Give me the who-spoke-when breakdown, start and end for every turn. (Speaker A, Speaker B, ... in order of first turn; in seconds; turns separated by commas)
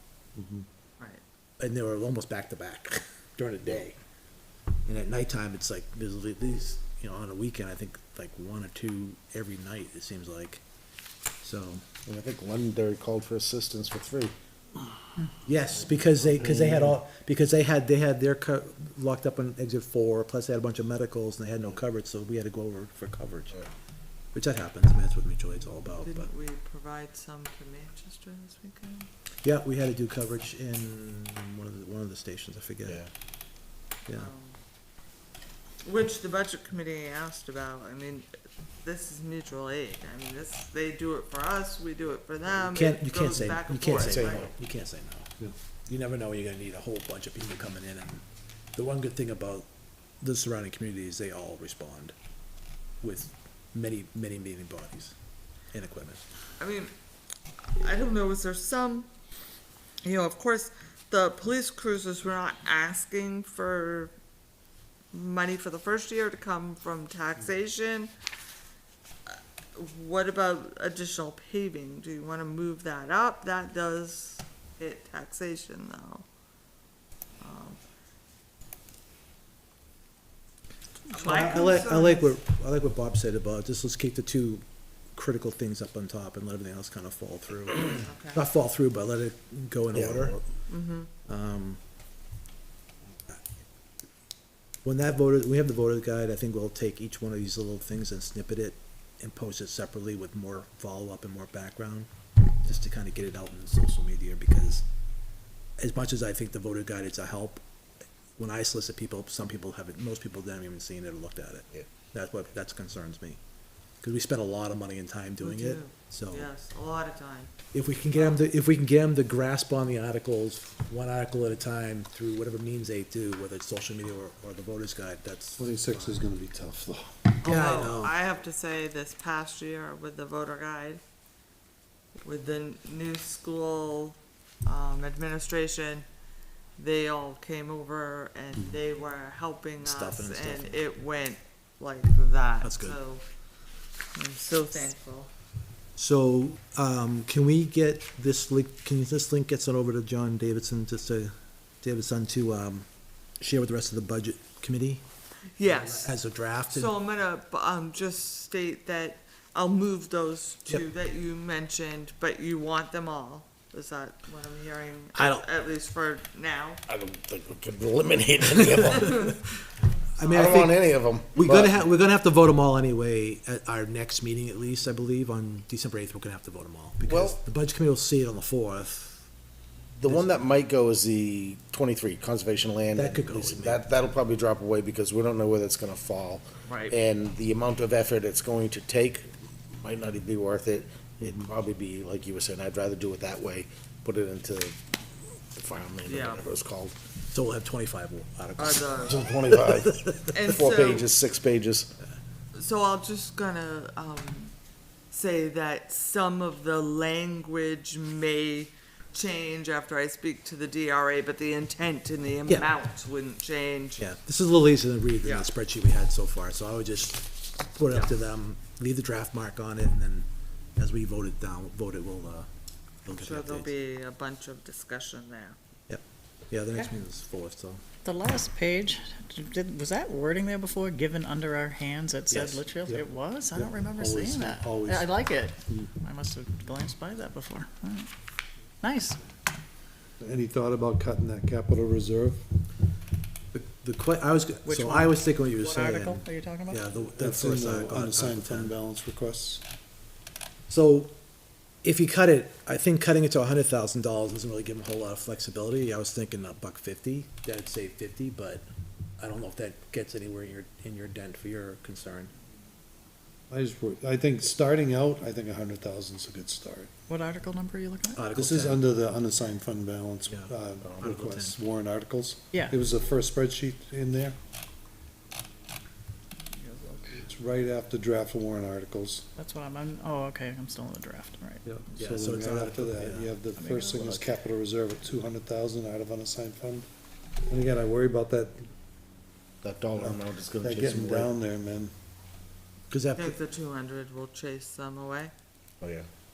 Speaker A: 0.4-0.7, Speaker B: 1.6-4.0, Speaker B: 4.9-10.6, Speaker B: 11.4-11.8, Speaker A: 12.1-14.3, Speaker B: 15.4-23.6, Speaker A: 16.3-16.9, Speaker B: 24.3-26.3, Speaker C: 26.0-29.1, Speaker B: 29.4-33.0, Speaker C: 34.1-34.6, Speaker C: 35.8-38.3, Speaker C: 38.8-44.5, Speaker B: 42.7-45.3, Speaker A: 43.9-44.5, Speaker B: 45.9-48.2, Speaker B: 48.8-49.7, Speaker B: 50.2-52.1, Speaker B: 53.0-55.2, Speaker B: 55.7-56.2, Speaker C: 56.6-56.9, Speaker C: 57.7-59.1, Speaker C: 60.0-64.1, Speaker C: 65.1-68.1, Speaker C: 69.3-76.3, Speaker C: 77.4-77.8, Speaker C: 81.1-82.4, Speaker B: 81.2-90.4, Speaker C: 88.0-88.4, Speaker A: 89.9-90.4, Speaker C: 90.7-91.1, Speaker B: 91.3-91.8, Speaker B: 94.8-102.1, Speaker B: 102.6-104.9, Speaker B: 105.8-107.6, Speaker B: 108.4-113.4, Speaker B: 114.0-116.5, Speaker C: 115.4-117.5, Speaker B: 117.7-126.2, Speaker C: 118.1-118.5, Speaker D: 125.6-127.3, Speaker C: 127.4-131.0, Speaker B: 127.5-128.1, Speaker C: 132.2-136.1, Speaker C: 136.8-143.2, Speaker B: 139.8-140.8, Speaker B: 142.6-143.0, Speaker C: 144.2-145.3, Speaker B: 146.0-152.9, Speaker B: 153.4-155.0, Speaker C: 155.6-166.8, Speaker B: 155.6-157.0, Speaker B: 165.2-165.4, Speaker A: 166.9-169.4, Speaker B: 170.2-179.3, Speaker A: 170.2-171.8, Speaker A: 177.0-177.4, Speaker A: 180.0-194.8, Speaker B: 180.1-180.4, Speaker B: 182.9-183.8, Speaker C: 186.7-186.9, Speaker A: 195.5-197.0, Speaker C: 196.1-196.5, Speaker B: 197.3-199.1, Speaker C: 198.6-199.3, Speaker A: 199.0-201.9, Speaker B: 199.9-200.2, Speaker C: 200.3-201.1, Speaker C: 202.5-204.5, Speaker C: 205.1-214.0, Speaker B: 214.0-222.5, Speaker C: 215.2-215.5, Speaker C: 217.9-218.1, Speaker B: 223.1-223.7, Speaker C: 223.1-225.6, Speaker B: 225.9-227.8, Speaker E: 228.1-238.1, Speaker B: 232.3-232.7, Speaker D: 232.8-235.1, Speaker E: 238.8-239.2, Speaker D: 240.2-242.4, Speaker B: 243.5-248.8, Speaker E: 244.7-246.8, Speaker D: 247.2-249.6, Speaker B: 250.7-251.1, Speaker B: 251.8-258.6, Speaker B: 259.2-262.3, Speaker D: 263.5-266.9, Speaker E: 267.1-268.2, Speaker B: 268.2-268.9, Speaker D: 268.3-274.4, Speaker B: 270.3-271.6, Speaker E: 276.5-277.2, Speaker D: 277.1-279.3, Speaker E: 279.4-281.6, Speaker D: 281.6-286.9, Speaker B: 282.0-283.3, Speaker E: 283.6-284.3, Speaker D: 287.5-288.7, Speaker A: 289.6-291.3, Speaker D: 290.0-291.9, Speaker B: 292.9-293.4, Speaker C: 293.2-295.3, Speaker A: 295.8-296.1